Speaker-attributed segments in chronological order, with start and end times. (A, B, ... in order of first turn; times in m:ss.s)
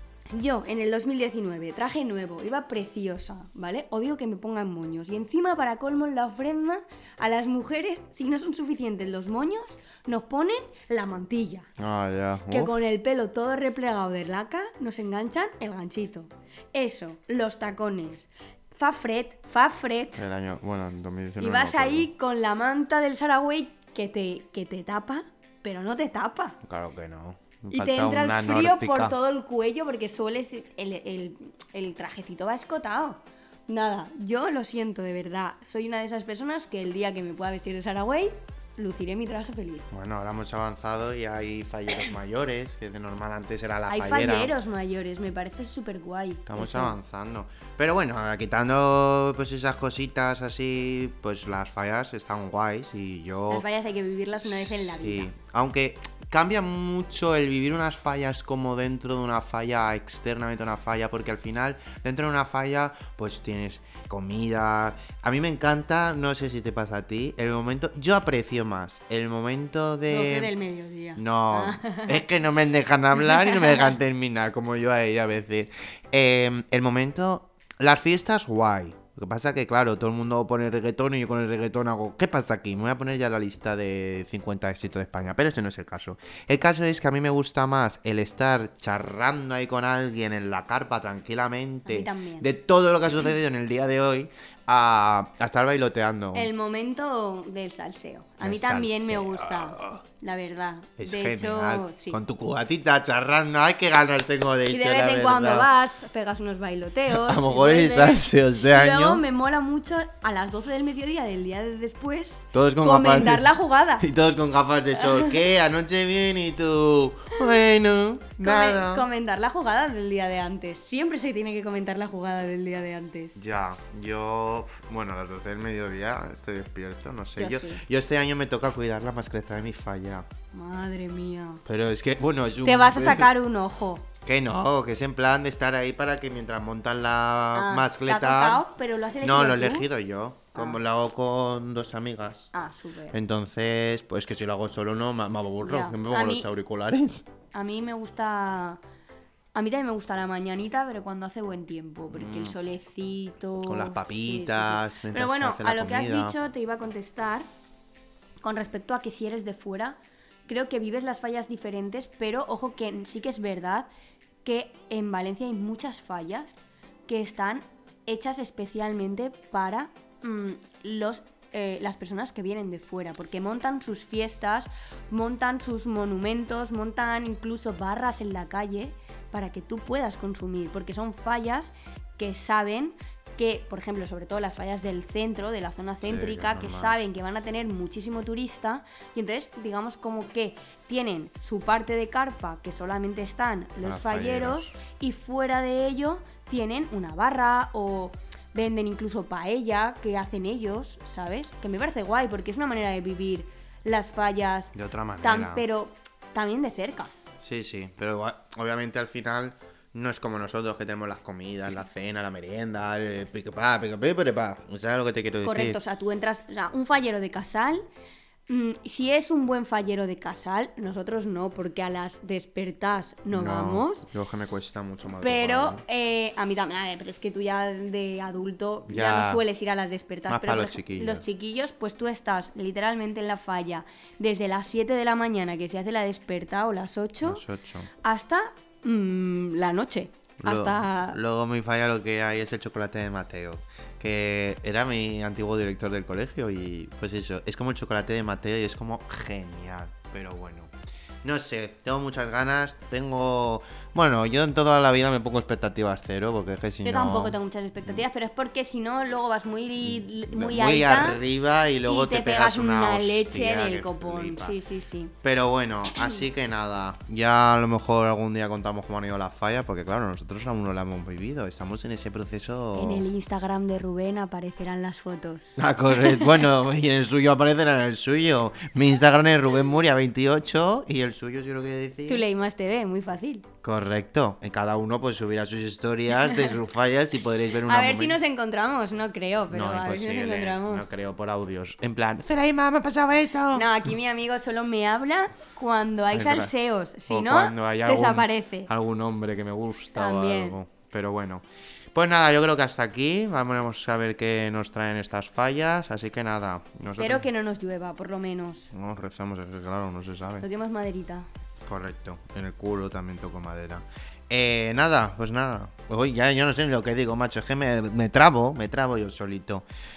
0:00.3-0:11.7 A
0:11.8-0:12.8 B
0:12.5-0:20.3 A
0:20.2-0:22.1 B
0:21.4-0:26.6 A
0:26.6-0:29.2 B
0:27.7-0:39.9 A
0:39.9-0:44.6 B
0:43.9-0:47.0 A
0:46.5-0:53.7 B
0:53.5-0:55.3 A
0:54.8-1:10.5 B
1:10.1-1:12.2 A
1:11.2-1:36.5 B
1:13.2-1:13.9 A
1:31.9-1:32.5 A
1:36.3-1:42.2 A
1:38.4-1:40.0 B
1:41.0-1:45.7 B
1:44.7-1:54.1 A
1:47.1-1:49.2 B
1:52.5-1:53.5 B
1:54.0-1:59.1 B
1:54.9-1:55.5 A
1:58.4-2:03.4 A
2:03.4-2:10.3 B
2:07.4-2:07.8 A
2:10.5-2:11.6 A
2:11.6-2:13.3 B
2:12.6-2:14.1 A
2:14.2-2:18.6 B
2:17.5-2:19.9 A
2:19.2-2:22.5 B
2:20.5-2:20.8 A
2:22.5-2:23.2 A
2:23.1-2:27.3 B
2:25.6-2:26.5 A
2:27.5-2:28.8 A
2:29.6-2:37.5 A
2:32.1-2:32.6 B
2:33.6-2:36.4 B
2:38.4-2:43.9 A
2:44.4-3:27.1 A
3:06.1-3:07.0 B
3:13.8-3:14.7 B
3:24.8-3:25.7 B
3:27.4-3:35.8 B
3:35.4-3:37.8 A
3:38.5-3:44.1 A
3:43.3-3:45.8 B
3:45.1-3:57.4 A
3:48.9-3:49.4 B
3:50.3-3:51.2 B
3:57.2-3:57.9 B
3:58.0-4:01.2 A
4:00.4-4:10.7 B
4:11.2-4:17.4 B
4:16.8-4:21.2 A
4:19.8-4:24.6 B
4:21.8-4:25.2 A
4:25.2-4:33.1 B
4:32.8-4:36.4 A
4:35.6-4:42.3 B
4:42.0-4:43.5 A
4:43.6-4:48.2 B
4:46.2-4:46.6 A
4:47.6-4:50.9 A
4:49.5-4:53.8 B
4:53.5-4:58.7 A
4:56.1-4:56.5 B
4:57.1-5:07.3 B
5:00.0-5:00.6 A
5:07.0-5:08.7 A
5:08.7-5:10.5 B
5:10.4-5:11.3 A
5:11.7-5:19.6 B